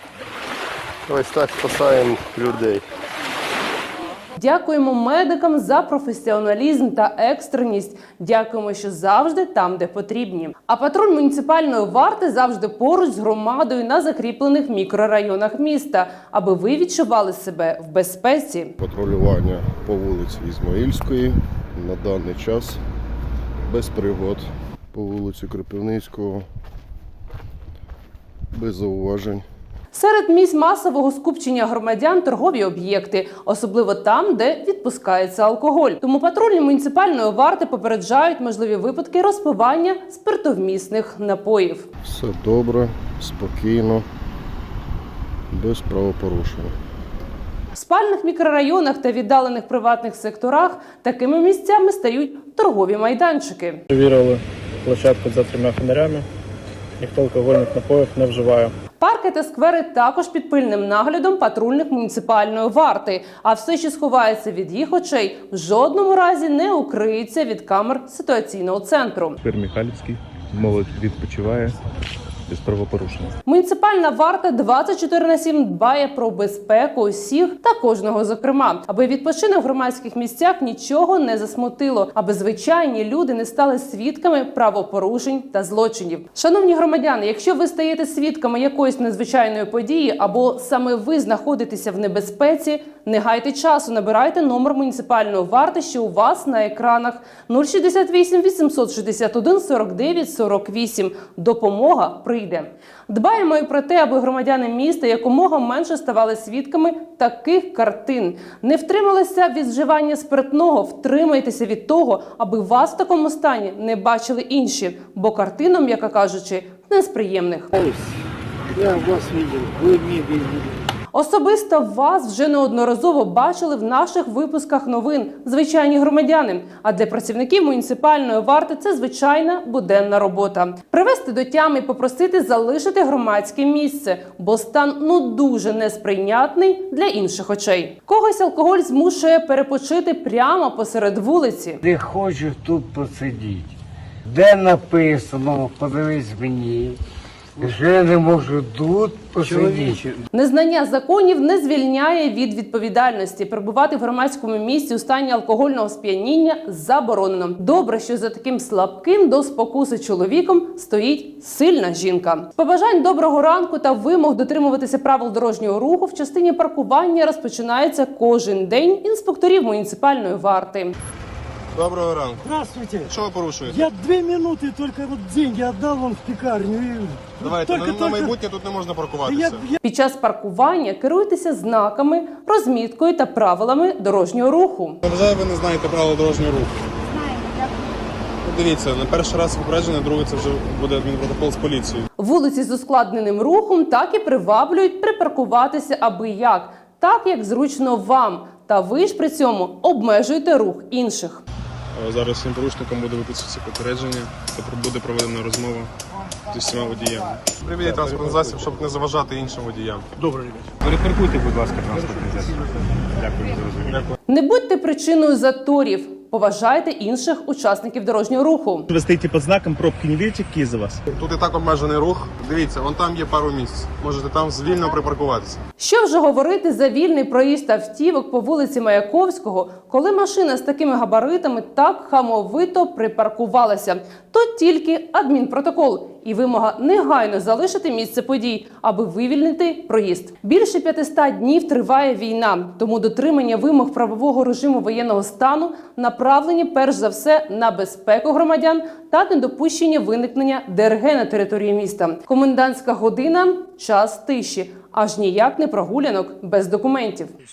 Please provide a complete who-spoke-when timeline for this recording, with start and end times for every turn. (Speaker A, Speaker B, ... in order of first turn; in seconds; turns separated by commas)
Speaker A: 1.1-2.8, Speaker B: 4.4-18.8, Speaker A: 18.8-22.8, Speaker A: 23.7-26.4, Speaker A: 28.5-29.4, Speaker B: 29.9-41.9, Speaker A: 42.0-44.0, Speaker A: 45.5-46.7, Speaker B: 47.7-53.8, Speaker C: 53.9-56.3, Speaker C: 57.0-58.8, Speaker B: 59.0-69.4, Speaker D: 69.4-71.8, Speaker D: 72.5-73.3, Speaker B: 73.5-117.7, Speaker E: 118.8-120.4, Speaker B: 121.1-141.8, Speaker E: 141.8-143.7, Speaker E: 144.2-147.0, Speaker E: 147.6-150.1, Speaker B: 150.3-170.9, Speaker F: 171.8-172.4, Speaker G: 172.5-173.1, Speaker F: 173.1-173.9, Speaker G: 173.7-178.3, Speaker F: 177.4-179.6, Speaker G: 179.3-179.6, Speaker B: 179.8-185.0, Speaker F: 185.1-186.7, Speaker F: 188.4-192.1, Speaker B: 192.2-201.4, Speaker F: 201.9-205.9, Speaker F: 206.5-210.2, Speaker F: 210.8-212.2, Speaker D: 211.5-211.8, Speaker F: 213.6-214.1, Speaker B: 214.3-218.9, Speaker H: 218.9-221.0, Speaker F: 221.1-225.6, Speaker B: 225.8-257.3